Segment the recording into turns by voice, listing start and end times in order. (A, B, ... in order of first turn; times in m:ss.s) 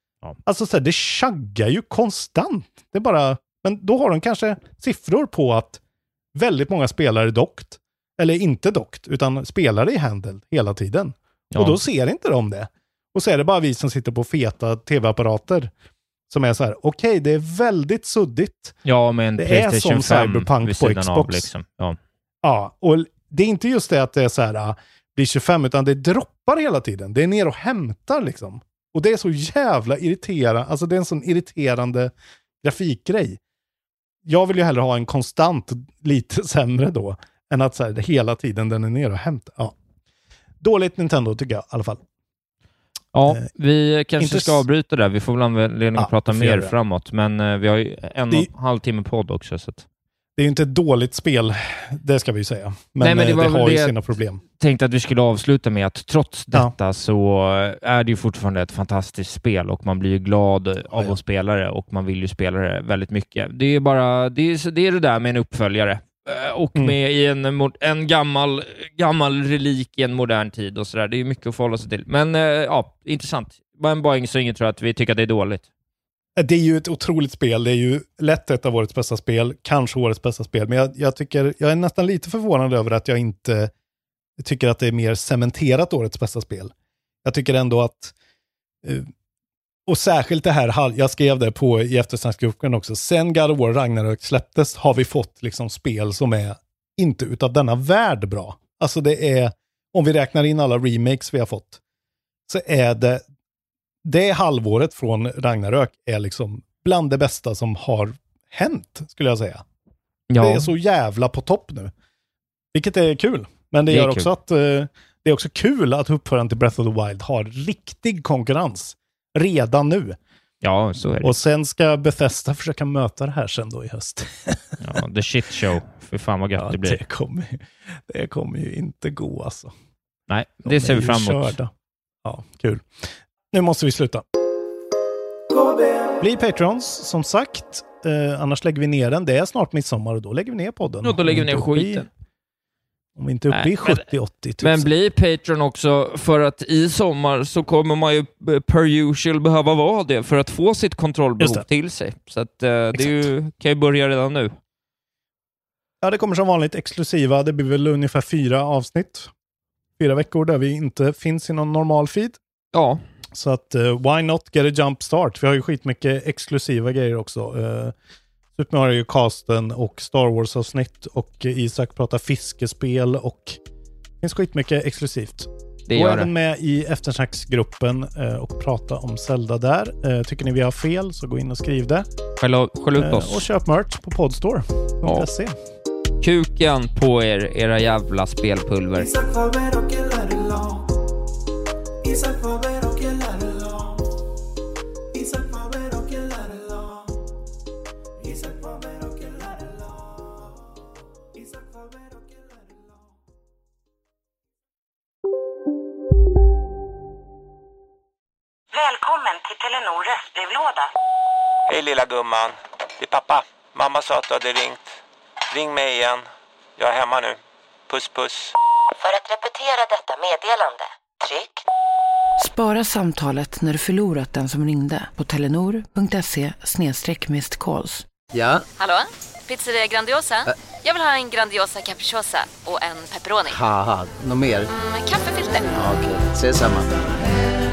0:00.5-0:05.8 A
0:06.4-0:15.7 A
0:11.5-0:11.8 B
0:16.3-0:18.8 A
0:18.8-0:22.0 B
0:19.4-0:21.5 A
0:22.4-0:33.4 A
0:34.2-0:39.8 A
0:40.6-0:42.0 A
0:43.1-0:49.8 B
0:44.2-0:44.6 A
0:46.0-0:46.7 A
0:50.4-0:54.4 A
0:53.0-0:54.0 B
0:54.6-1:15.7 B
1:00.9-1:01.2 A
1:16.4-1:23.7 A
1:24.4-1:26.7 A
1:27.2-1:28.1 A
1:28.8-1:29.1 A
1:29.9-1:41.8 A
1:42.5-1:43.2 A
1:44.0-1:49.6 A
1:50.3-1:50.7 B
1:50.4-1:51.9 A
1:52.7-2:00.2 A
1:53.9-1:54.3 B
2:00.6-2:01.3 B
2:01.2-2:04.8 A
2:04.8-2:07.0 B
2:06.6-2:09.7 A
2:10.3-2:11.6 B
2:10.6-2:11.7 A
2:12.2-2:14.2 A
2:16.2-2:22.1 A
2:21.0-2:22.1 B
2:23.2-2:24.9 A
2:23.5-2:24.1 B
2:24.6-2:34.6 B
2:31.4-2:31.7 A
2:33.0-2:33.3 A
2:36.0-2:39.3 A
2:40.0-2:42.4 A
2:42.7-2:43.0 B
2:43.3-2:47.9 A
2:48.6-2:53.6 A
2:54.2-3:02.1 A
2:55.9-2:56.3 B
3:02.4-3:03.5 B
3:03.0-3:05.6 A
3:06.2-3:09.1 B
3:09.0-3:09.8 A
3:28.7-3:30.9 C
3:31.7-3:34.8 C
3:35.5-3:38.6 C
3:39.0-3:41.6 D
3:42.4-3:48.1 E
3:48.3-3:48.6 F
3:48.8-3:53.6 G
3:53.5-3:54.7 F
3:54.8-3:55.8 G
3:55.8-3:56.9 F